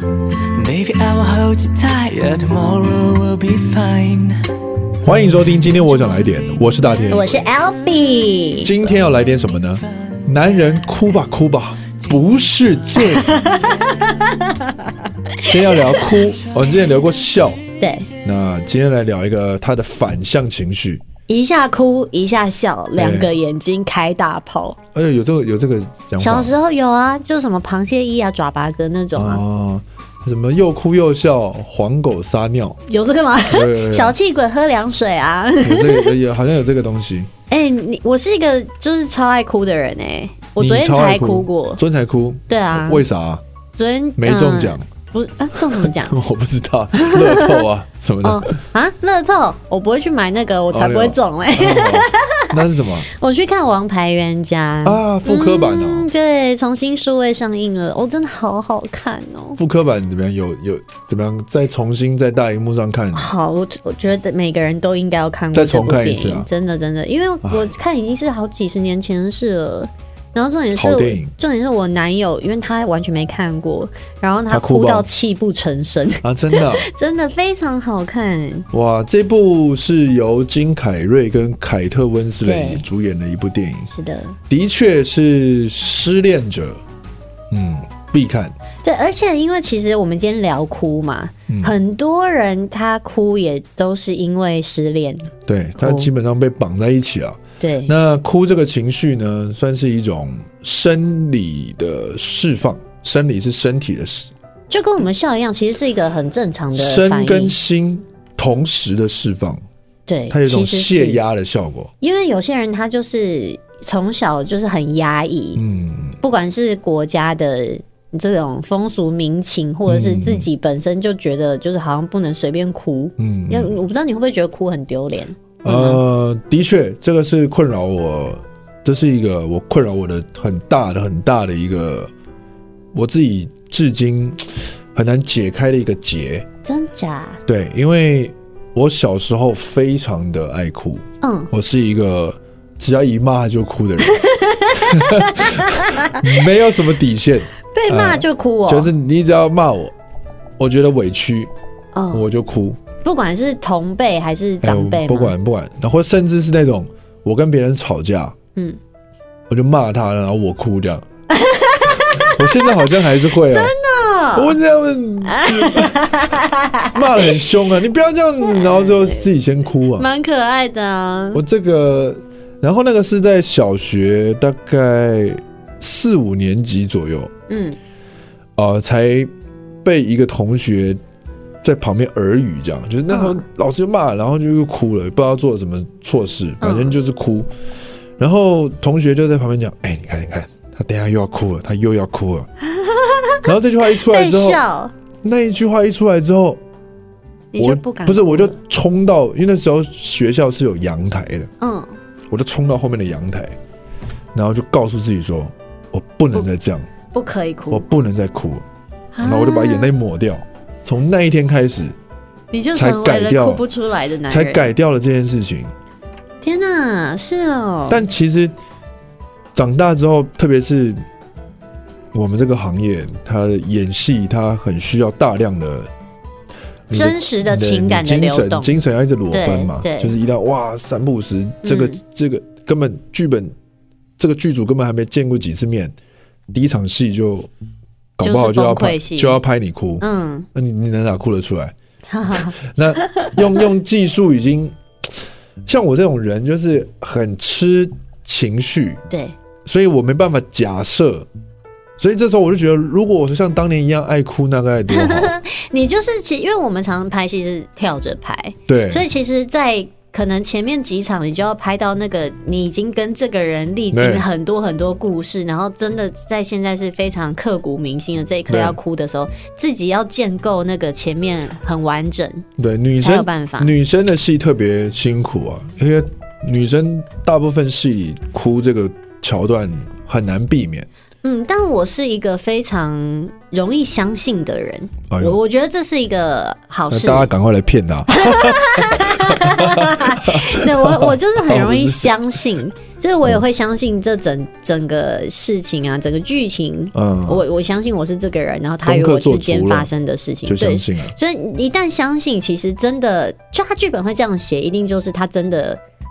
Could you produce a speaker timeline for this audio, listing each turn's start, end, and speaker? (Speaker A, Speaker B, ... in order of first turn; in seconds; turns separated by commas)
Speaker A: 0.5-4.4, Speaker B: 5.0-7.4, Speaker C: 7.1-8.7, Speaker B: 8.6-13.4, Speaker C: 13.1-16.0, Speaker B: 15.5-17.6, Speaker C: 17.8-18.1, Speaker B: 18.2-21.0, Speaker C: 21.3-24.8, Speaker B: 22.9-23.3, Speaker B: 24.9-26.5, Speaker C: 26.2-29.4, Speaker B: 29.1-32.8, Speaker C: 32.9-36.1, Speaker B: 33.5-34.1, Speaker B: 35.6-37.3, Speaker C: 37.5-41.8, Speaker B: 40.6-43.4, Speaker C: 42.5-43.0, Speaker C: 43.8-46.1, Speaker B: 44.2-44.9, Speaker B: 45.5-48.5, Speaker C: 46.9-47.6, Speaker C: 48.2-59.6, Speaker B: 50.7-53.1, Speaker B: 54.8-56.1, Speaker B: 59.6-63.3, Speaker C: 63.1-78.7, Speaker B: 65.5-66.5, Speaker B: 67.4-67.7, Speaker B: 70.7-71.3, Speaker B: 74.5-75.1, Speaker B: 76.2-76.9, Speaker B: 78.7-83.9, Speaker C: 82.4-82.8, Speaker C: 83.9-84.4, Speaker B: 84.5-86.8, Speaker B: 87.5-88.5, Speaker C: 88.8-96.1, Speaker B: 91.5-91.7, Speaker B: 95.4-104.3, Speaker C: 97.6-97.9, Speaker C: 104.7-107.6, Speaker B: 106.7-109.6, Speaker C: 110.1-111.2, Speaker B: 110.3-111.9, Speaker C: 112.0-115.6, Speaker B: 115.6-116.2, Speaker C: 116.2-126.0, Speaker B: 119.9-120.5, Speaker B: 123.2-123.7, Speaker B: 125.6-132.1, Speaker B: 132.9-136.5, Speaker C: 136.6-137.4, Speaker B: 137.4-144.2, Speaker C: 141.2-141.5, Speaker C: 144.0-146.3, Speaker B: 144.8-149.9, Speaker C: 147.7-148.9, Speaker B: 150.6-151.5, Speaker C: 151.9-152.3, Speaker B: 152.1-152.8, Speaker C: 153.0-155.3, Speaker B: 154.6-158.3, Speaker B: 159.5-161.1, Speaker C: 161.3-162.8, Speaker B: 162.1-163.7, Speaker C: 163.4-164.6, Speaker B: 164.3-166.0, Speaker C: 165.2-167.3, Speaker B: 166.9-170.1, Speaker C: 168.5-169.2, Speaker C: 169.9-171.4, Speaker B: 171.3-177.3, Speaker C: 177.5-177.8, Speaker B: 178.6-179.3, Speaker B: 179.8-181.0, Speaker B: 181.6-187.5, Speaker C: 183.1-183.4, Speaker C: 186.6-186.9, Speaker B: 188.2-192.5, Speaker C: 192.7-193.4, Speaker B: 193.4-194.6, Speaker C: 194.0-194.9, Speaker B: 195.2-196.6, Speaker C: 197.5-198.6, Speaker B: 197.6-201.5, Speaker C: 201.6-201.9, Speaker B: 202.3-203.6, Speaker B: 204.3-206.9, Speaker C: 207.1-207.8, Speaker B: 207.7-208.6, Speaker C: 209.1-209.9, Speaker B: 209.2-211.9, Speaker C: 212.5-214.7, Speaker B: 212.7-213.6, Speaker B: 214.3-215.7, Speaker C: 216.4-218.0, Speaker B: 217.9-218.5, Speaker B: 219.5-221.0, Speaker B: 222.1-225.9, Speaker B: 226.9-233.5, Speaker C: 226.9-228.7, Speaker C: 229.3-230.1, Speaker C: 231.6-232.0, Speaker B: 234.2-235.9, Speaker B: 236.5-237.5, Speaker B: 238.2-241.7, Speaker C: 238.2-239.4, Speaker C: 240.0-240.5, Speaker C: 242.1-243.3, Speaker B: 242.3-244.8, Speaker B: 245.6-249.0, Speaker C: 249.1-249.3, Speaker B: 249.6-251.3, Speaker B: 252.0-255.3, Speaker C: 254.9-272.4, Speaker B: 258.7-259.1, Speaker B: 263.9-264.2, Speaker B: 268.5-268.8, Speaker B: 272.6-280.9, Speaker C: 273.0-273.7, Speaker C: 281.2-287.3, Speaker B: 285.1-285.4, Speaker B: 286.9-292.1, Speaker C: 288.1-305.8, Speaker B: 296.9-297.4, Speaker B: 298.8-299.9, Speaker B: 300.4-301.1